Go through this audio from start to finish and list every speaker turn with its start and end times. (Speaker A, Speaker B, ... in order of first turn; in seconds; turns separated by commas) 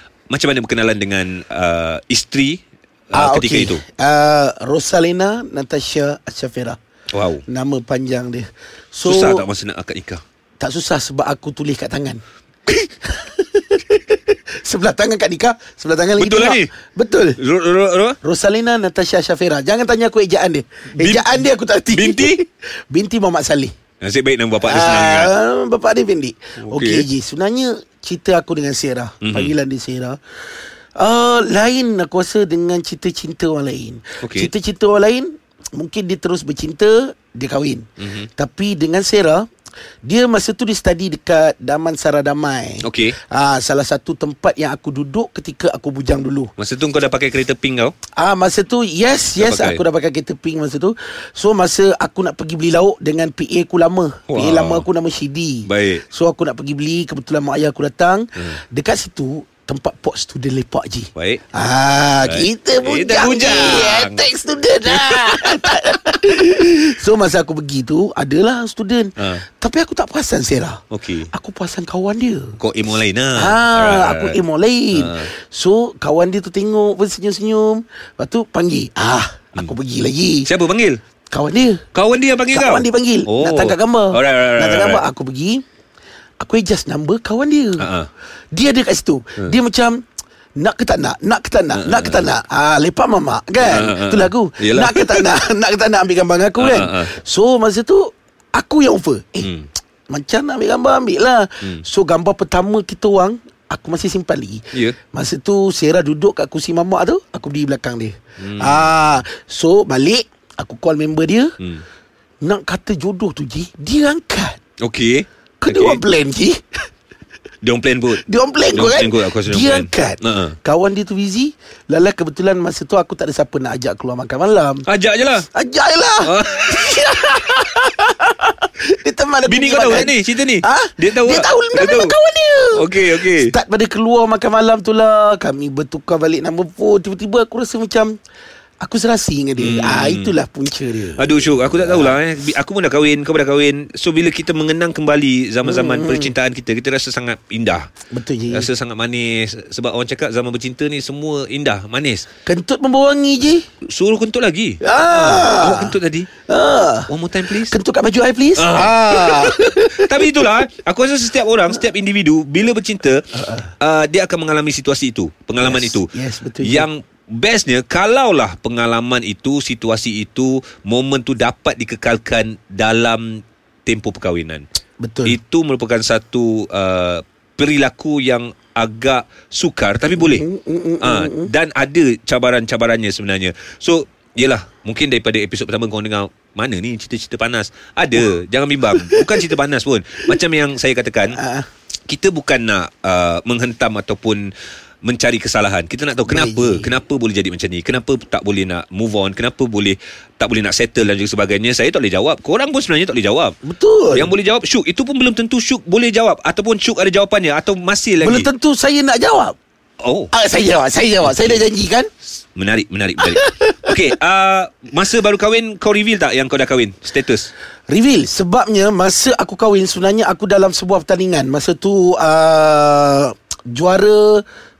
Speaker A: 0.3-2.6, Speaker A: 3.1-3.8, Speaker B: 3.1-6.8, Speaker A: 7.1-7.4, Speaker B: 7.5-9.5, Speaker A: 9.0-10.2, Speaker B: 10.6-17.4, Speaker A: 16.2-16.7, Speaker A: 17.4-18.2, Speaker B: 18.2-23.8, Speaker A: 20.9-22.4, Speaker A: 24.0-25.3, Speaker B: 24.6-30.2, Speaker A: 26.6-27.1, Speaker A: 29.2-29.5, Speaker B: 31.0-39.5, Speaker A: 34.2-34.5, Speaker A: 38.0-38.3, Speaker B: 40.0-46.5, Speaker A: 42.8-43.2, Speaker A: 46.6-48.0, Speaker B: 48.1-72.6, Speaker A: 49.4-49.8, Speaker A: 54.3-54.9, Speaker A: 55.7-56.0, Speaker A: 61.2-61.4, Speaker A: 62.2-64.2, Speaker A: 64.8-65.8, Speaker A: 69.2-69.5, Speaker A: 70.9-71.3, Speaker A: 72.6-74.4, Speaker B: 73.4-80.5, Speaker A: 75.0-75.3, Speaker A: 80.5-81.0, Speaker B: 81.3-81.8, Speaker A: 81.9-85.1, Speaker B: 82.5-85.6, Speaker B: 86.4-87.9, Speaker A: 87.8-88.1, Speaker B: 88.5-90.0, Speaker B: 90.6-99.5, Speaker A: 91.7-92.3, Speaker A: 93.6-95.3, Speaker A: 96.6-97.1, Speaker A: 99.4-99.7, Speaker B: 100.1-111.5, Speaker A: 108.4-109.1, Speaker A: 111.6-111.8, Speaker B: 112.4-114.6, Speaker A: 114.8-116.0, Speaker B: 115.6-116.8, Speaker A: 117.6-120.6, Speaker B: 118.1-124.9, Speaker A: 124.9-125.5, Speaker B: 125.4-138.2, Speaker A: 126.2-127.0, Speaker A: 129.5-132.2, Speaker A: 132.8-133.6, Speaker B: 138.8-142.2, Speaker A: 139.6-140.3, Speaker A: 141.2-147.9, Speaker B: 145.6-146.3, Speaker B: 148.1-148.7, Speaker A: 148.5-152.3, Speaker B: 152.5-153.6, Speaker A: 153.9-156.3, Speaker B: 154.8-160.4, Speaker A: 157.1-157.8, Speaker A: 158.6-163.3, Speaker B: 163.3-163.7, Speaker A: 163.8-166.1, Speaker B: 165.6-166.9, Speaker A: 166.6-174.6, Speaker B: 175.0-175.4, Speaker A: 175.3-180.5, Speaker B: 180.2-181.5, Speaker A: 181.0-191.4, Speaker B: 188.9-189.4, Speaker B: 191.3-191.7, Speaker A: 192.1-194.5, Speaker A: 195.0-203.6, Speaker B: 196.3-196.9, Speaker B: 203.6-204.3, Speaker A: 204.1-208.5, Speaker B: 208.2-209.6, Speaker A: 210.0-210.3, Speaker B: 210.3-212.1, Speaker A: 211.2-211.6, Speaker A: 212.6-217.5, Speaker B: 213.2-214.1, Speaker B: 217.9-224.4